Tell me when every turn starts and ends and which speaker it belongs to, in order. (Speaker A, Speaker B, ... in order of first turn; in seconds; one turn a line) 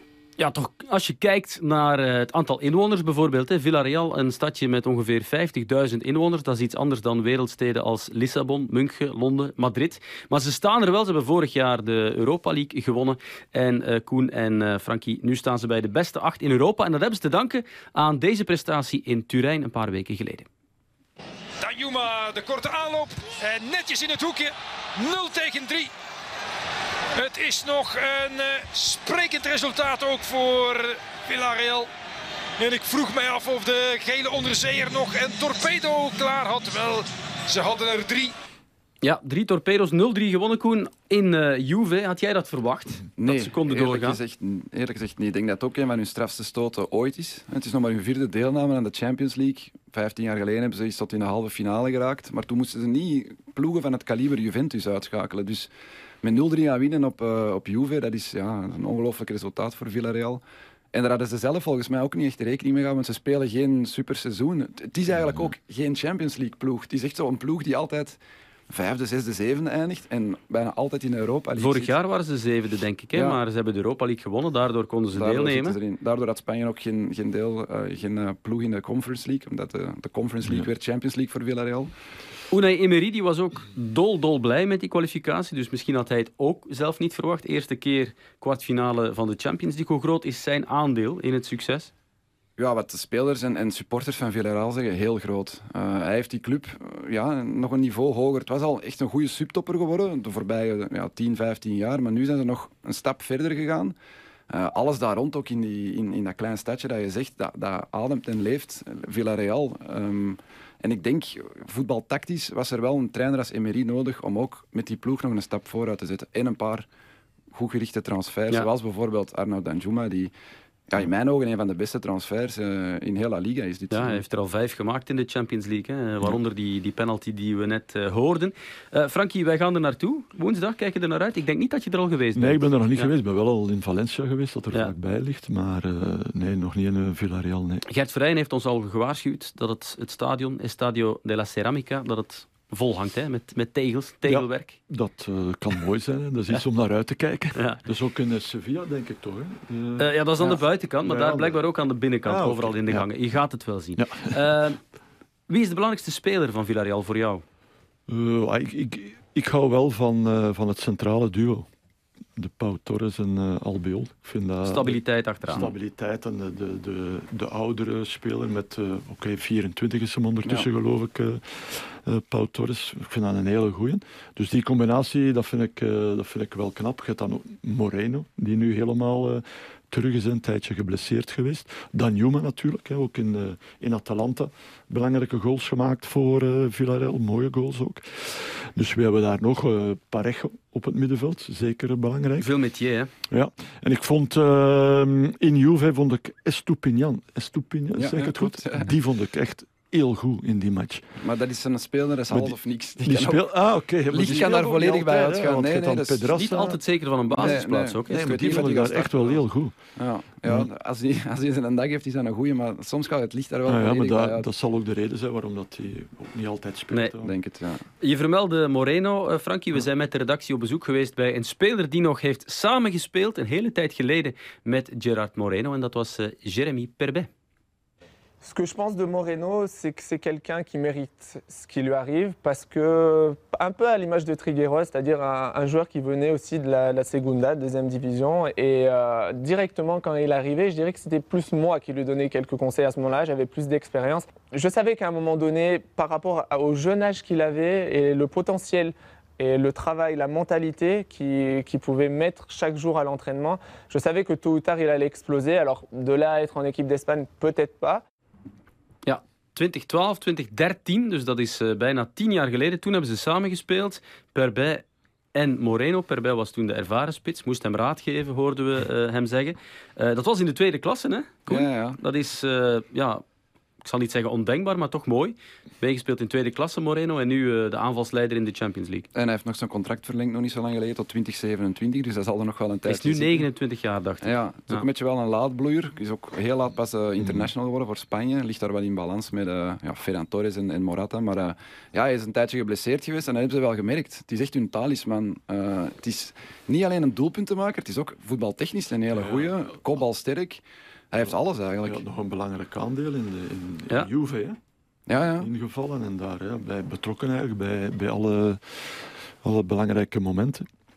Speaker A: 0.4-20.5
Speaker B: 21.6-25.9
Speaker B: 27.2-31.9
Speaker B: 32.6-38.3
Speaker A: 39.0-44.2
Speaker C: 43.2-55.7
Speaker C: 56.2-60.4
Speaker C: 60.9-68.2
Speaker C: 68.7-72.0
Speaker A: 71.6-75.8
Speaker C: 73.1-73.4
Speaker C: 75.2-81.9
Speaker A: 82.5-91.9
Speaker C: 92.6-104.0
Speaker C: 104.5-116.9
Speaker C: 117.5-120.3
Speaker C: 120.9-124.2
Speaker A: 123.9-133.1
Speaker D: 132.3-137.8
Speaker A: 137.9-144.8
Speaker D: 144.2-151.6
Speaker A: 147.6-147.8
Speaker A: 150.0-154.8
Speaker D: 152.2-153.1
Speaker D: 154.0-154.5
Speaker A: 155.5-157.4
Speaker D: 158.1-161.7
Speaker D: 162.4-192.5
Speaker A: 164.7-165.7
Speaker A: 192.4-193.1
Speaker D: 193.3-201.0
Speaker C: 198.0-198.9
Speaker C: 201.2-203.6
Speaker D: 202.3-206.8
Speaker C: 204.1-206.3
Speaker A: 206.3-208.3
Speaker C: 207.3-209.4
Speaker D: 208.1-209.8
Speaker C: 210.0-214.5
Speaker D: 213.7-217.3
Speaker C: 217.2-217.8
Speaker A: 218.0-227.3
Speaker E: 228.4-258.0
Speaker A: 259.1-264.8
Speaker A: 265.4-273.2
Speaker C: 271.5-272.0
Speaker A: 273.8-279.1
Speaker C: 279.1-283.5
Speaker A: 282.9-284.9
Speaker C: 284.2-302.0
Speaker D: 287.2-287.5
Speaker D: 299.1-299.6
Speaker D: 301.8-304.6
Speaker C: 305.1-305.5
Speaker D: 305.4-310.7